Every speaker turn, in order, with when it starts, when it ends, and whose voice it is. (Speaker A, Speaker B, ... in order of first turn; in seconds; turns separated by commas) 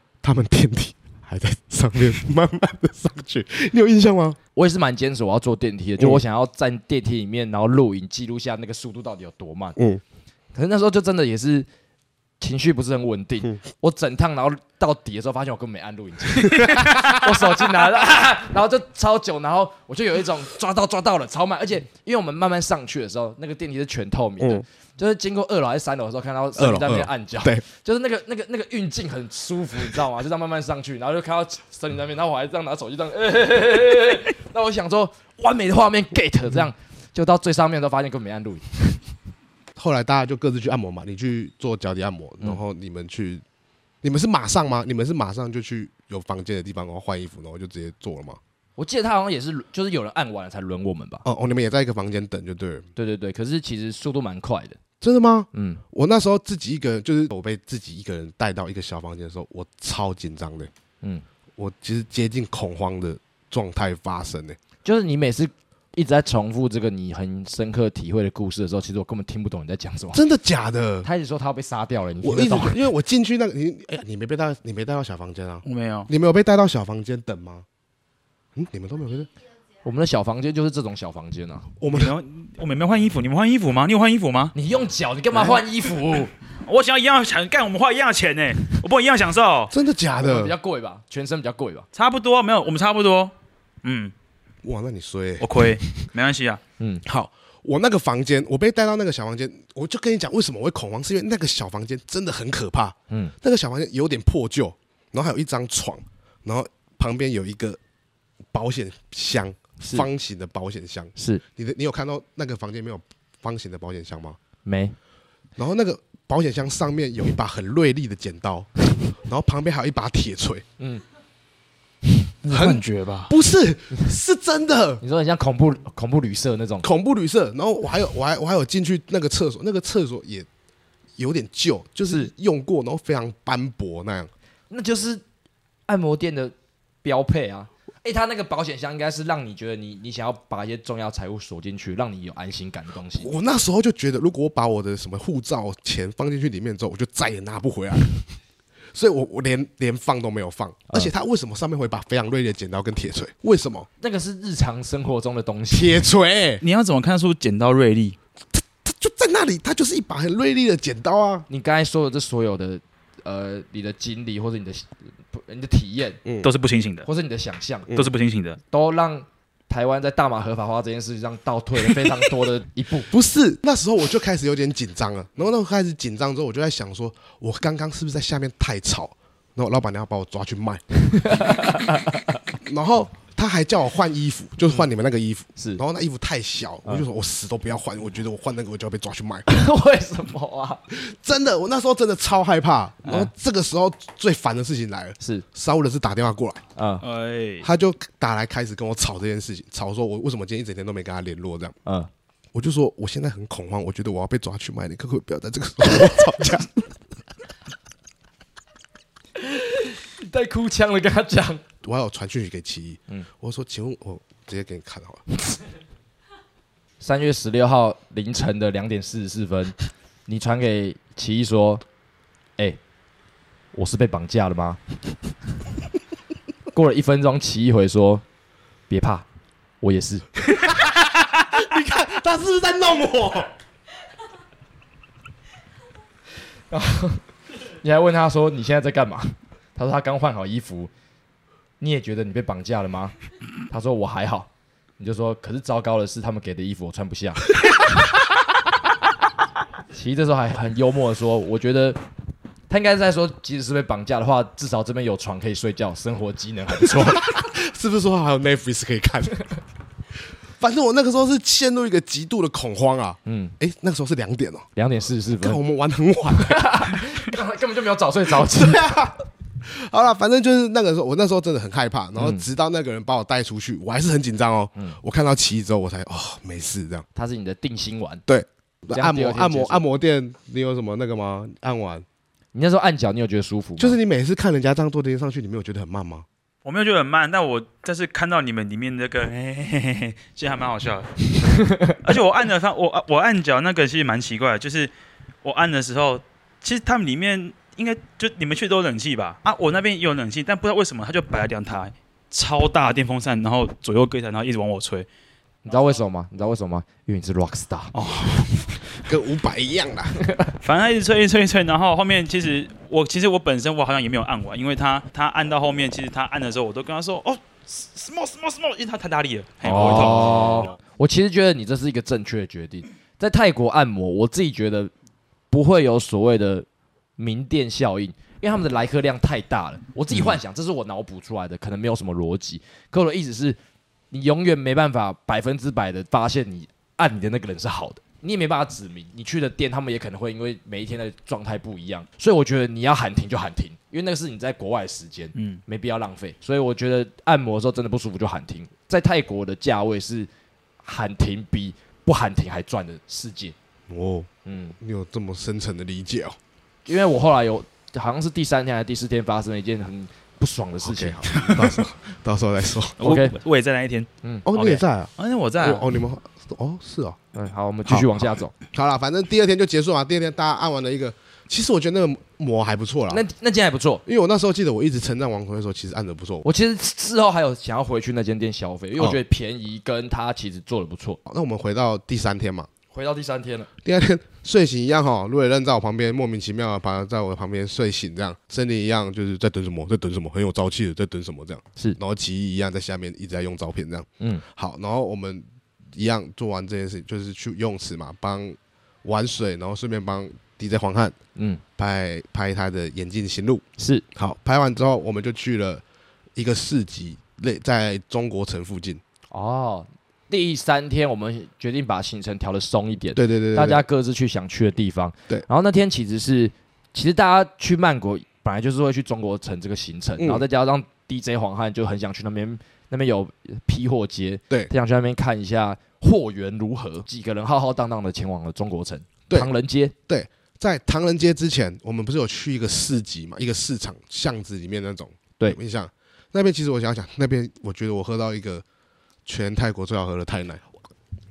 Speaker A: 0.2-4.4, Speaker B: 4.5-9.8, Speaker A: 9.8-10.0, Speaker B: 10.5-11.7, Speaker B: 12.4-39.0, Speaker A: 16.4-17.2, Speaker A: 26.6-27.6, Speaker A: 39.8-43.4, Speaker A: 44.0-48.4, Speaker B: 48.8-51.2, Speaker A: 51.2-52.9, Speaker B: 53.0-54.8, Speaker A: 55.0-60.7, Speaker B: 55.5-55.8, Speaker A: 61.6-64.6, Speaker B: 64.8-70.2, Speaker A: 70.1-71.1, Speaker B: 71.0-72.8, Speaker A: 72.2-77.7, Speaker C: 75.6-76.1, Speaker A: 78.5-79.3, Speaker B: 79.8-81.7, Speaker A: 81.8-82.1, Speaker C: 81.9-84.5, Speaker B: 84.5-86.3, Speaker C: 86.6-89.7, Speaker A: 89.7-90.5, Speaker B: 90.2-91.9, Speaker C: 91.9-93.3, Speaker C: 93.8-94.1, Speaker A: 94.6-96.0, Speaker C: 95.4-96.6, Speaker A: 97.0-107.8, Speaker A: 108.5-114.4, Speaker B: 109.8-110.1, Speaker B: 111.2-111.4, Speaker B: 114.6-115.0, Speaker A: 115.6-120.6, Speaker C: 122.4-123.3, Speaker A: 122.5-125.0, Speaker B: 125.0-126.8, Speaker A: 126.8-130.5, Speaker A: 131.2-134.3, Speaker B: 134.7-135.2, Speaker B: 135.9-136.5, Speaker B: 137.0-143.3, Speaker A: 143.2-148.1, Speaker A: 148.9-153.9, Speaker B: 154.0-156.0, Speaker A: 155.7-156.6, Speaker C: 156.6-158.2, Speaker A: 158.8-161.5, Speaker B: 161.5-166.2, Speaker A: 166.2-166.5, Speaker C: 166.4-167.1, Speaker B: 167.1-167.9, Speaker C: 167.9-168.6, Speaker B: 168.7-173.1, Speaker A: 173.1-181.7, Speaker B: 181.2-182.2, Speaker A: 182.5-189.5, Speaker B: 189.5-190.8, Speaker A: 190.9-196.6, Speaker B: 195.2-195.4, Speaker B: 196.8-197.0, Speaker C: 197.0-197.7, Speaker A: 197.6-201.8, Speaker A: 202.5-206.9, Speaker B: 209.4-211.6, Speaker A: 211.8-215.3, Speaker B: 217.0-219.8, Speaker B: 220.3-221.8, Speaker B: 223.7-224.8, Speaker B: 226.7-228.2, Speaker B: 228.9-229.2, Speaker B: 229.8-230.2, Speaker A: 230.5-233.5, Speaker B: 236.7-237.2, Speaker B: 237.8-240.9, Speaker B: 241.8-243.1, Speaker B: 243.7-247.5, Speaker B: 249.9-252.0, Speaker B: 252.7-257.3, Speaker A: 256.8-259.4, Speaker A: 260.6-264.7, Speaker B: 263.2-263.6, Speaker B: 264.8-265.6, Speaker A: 265.4-267.1, Speaker B: 266.3-269.0, Speaker A: 268.3-277.1, Speaker B: 272.2-272.4, Speaker B: 277.1-278.2, Speaker A: 278.3-282.0, Speaker B: 278.9-279.8, Speaker B: 282.5-284.0, Speaker A: 283.8-286.2, Speaker C: 286.6-294.9, Speaker B: 291.6-291.9, Speaker C: 295.4-305.1, Speaker B: 305.6-307.9, Speaker C: 307.9-308.8, Speaker A: 309.0-310.2, Speaker B: 310.2-310.5, Speaker C: 310.6-320.7, Speaker B: 319.6-324.9, Speaker A: 319.7-320.7, Speaker B: 325.5-326.6, Speaker B: 327.2-333.6, Speaker B: 334.1-350.3, Speaker C: 345.4-345.6, Speaker B: 350.8-353.5, Speaker A: 353.9-356.4, Speaker B: 354.4-354.8, Speaker B: 356.9-361.3, Speaker A: 360.8-363.0, Speaker C: 361.3-361.8, Speaker C: 363.0-365.9, Speaker B: 363.0-363.4, Speaker A: 364.4-367.2, Speaker B: 367.3-368.5, Speaker A: 367.9-373.2, Speaker B: 373.1-374.0, Speaker A: 374.1-376.4, Speaker B: 376.4-381.2, Speaker A: 381.2-382.7, Speaker B: 382.9-383.7, Speaker A: 383.8-401.2, Speaker B: 401.4-401.6, Speaker A: 401.8-403.6, Speaker B: 403.8-404.0, Speaker A: 404.1-405.8, Speaker A: 406.4-409.0, Speaker B: 409.3-429.9, Speaker A: 413.1-413.8, Speaker A: 420.2-420.4, Speaker A: 430.1-438.6, Speaker A: 439.2-440.6